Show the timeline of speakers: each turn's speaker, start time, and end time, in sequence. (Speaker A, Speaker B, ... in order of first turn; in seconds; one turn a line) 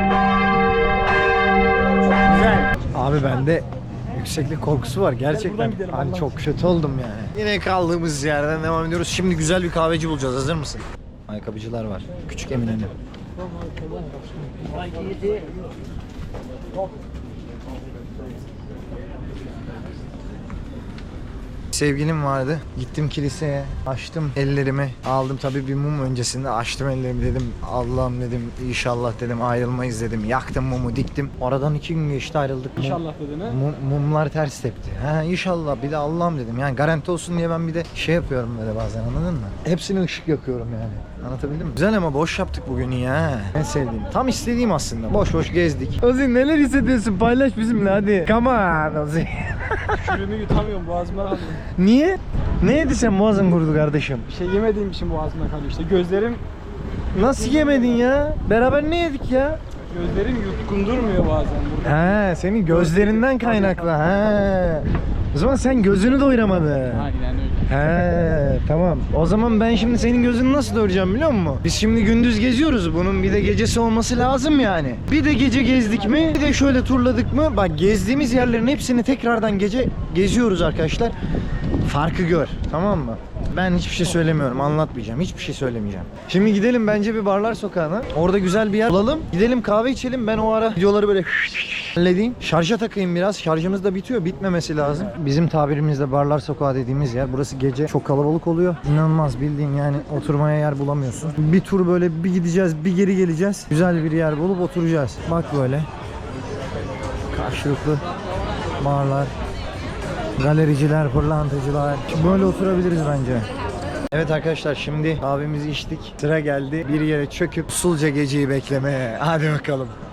Speaker A: 2.1-2.4
Speaker B: 2.3-12.9
Speaker A: 5.3-6.4
Speaker A: 13.8-15.4
Speaker B: 21.7-50.1
Speaker A: 32.8-33.6
Speaker A: 50.0-51.6
Speaker B: 51.7-54.3
Speaker A: 54.3-56.4
Speaker B: 57.1-59.6
Speaker A: 59.9-62.2
Speaker B: 61.8-67.1
Speaker A: 62.9-63.8
Speaker A: 67.0-67.7
Speaker B: 67.7-81.2
Speaker B: 81.8-105.9
Speaker B: 107.3-108.0
Speaker B: 108.8-109.3
Speaker B: 110.4-113.5
Speaker B: 114.1-120.0